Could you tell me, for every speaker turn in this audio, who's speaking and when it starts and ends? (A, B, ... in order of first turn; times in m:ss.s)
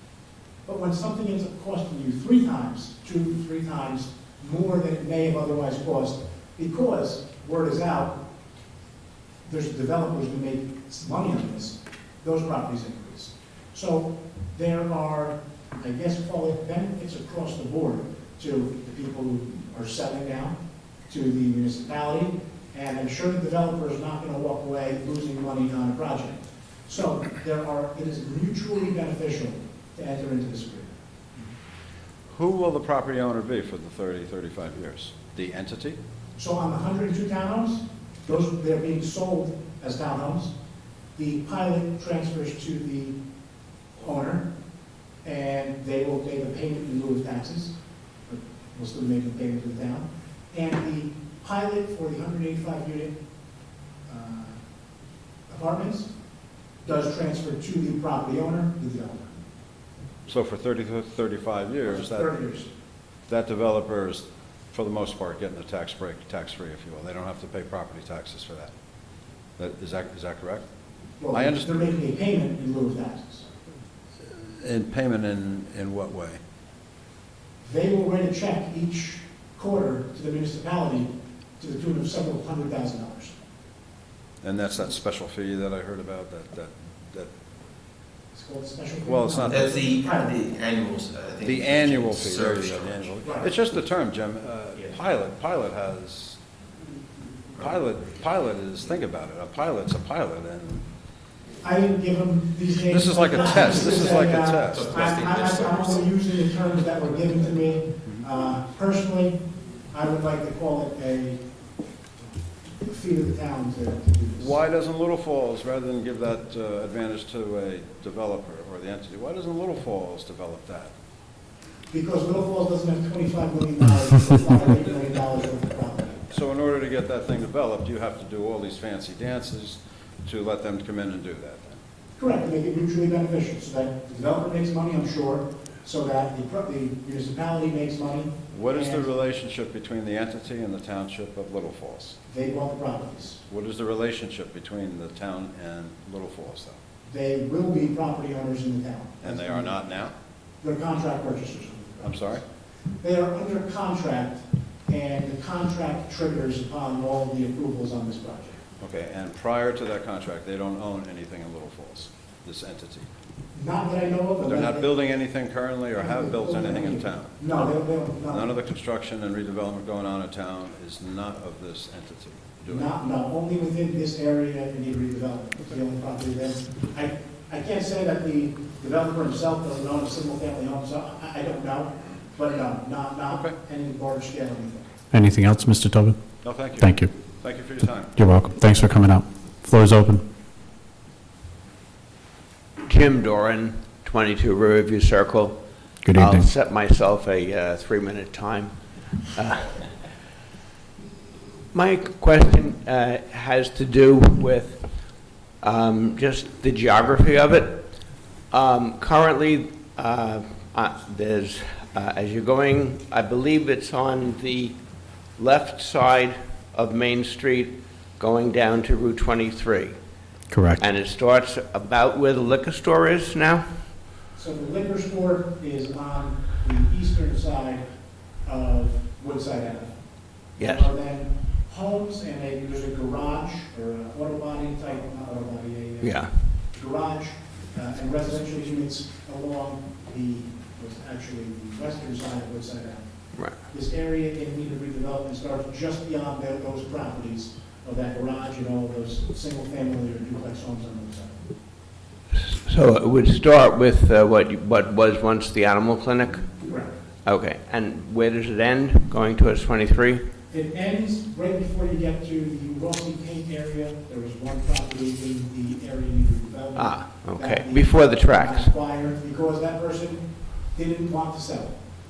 0:00.6-0:08.2 A
0:09.4-0:20.6 A
0:21.1-0:31.4 A
0:32.3-0:36.0 B
0:36.4-0:40.5 A
0:41.2-0:43.2 A
0:44.0-0:44.5 A
0:45.2-0:47.7 A
0:48.3-0:53.2 A
0:54.1-0:54.6 A
0:55.5-0:56.1 A
0:56.8-0:59.3 A
1:00.2-1:02.3 B
1:01.9-1:02.7 A
1:03.3-1:08.7 B
1:09.6-1:10.6 B
1:11.2-1:13.5 A
1:11.3-1:11.7 B
1:14.4-1:16.4 B
1:17.6-1:23.3 A
1:24.4-1:27.3 B
1:28.3-1:30.4 A
1:29.0-1:29.8 B
1:29.5-1:33.2 C
1:31.4-1:36.4 B
1:33.2-1:33.5 A
1:37.6-1:40.8 B
1:41.6-1:49.4 A
1:42.9-1:45.0 B
1:43.8-1:46.1 C
1:49.9-1:51.4 A
1:52.8-1:54.5 A
1:54.4-2:00.9 B
2:01.9-2:06.3 A
2:06.3-2:11.8 B
2:12.2-2:19.0 A
2:18.5-2:22.2 B
2:22.3-2:23.4 A
2:23.5-2:26.8 B
2:27.1-2:29.8 A
2:29.2-2:30.1 B
2:30.6-2:32.4 A
2:32.0-2:32.4 B
2:33.0-2:38.6 A
2:38.8-2:43.1 B
2:43.5-2:44.9 A
2:44.4-2:47.5 B
2:45.9-2:48.5 A
2:48.3-2:52.9 B
2:52.7-3:04.9 A
3:03.3-3:03.6 B
3:05.1-3:06.2 D
3:06.4-3:08.1 B
3:06.8-3:07.1 D
3:08.2-3:10.2 D
3:12.8-3:20.2 E
3:16.0-3:16.5 D
3:21.7-3:39.9 E
3:40.5-3:40.8 D
3:40.8-3:43.6 E
3:44.3-3:47.8 A
3:48.4-4:11.4 A
3:50.6-3:50.9 E
3:56.0-3:56.5 E
4:12.3-4:20.2 E
4:16.6-4:17.0 A
4:20.5-4:31.8 A
4:26.7-4:28.7 E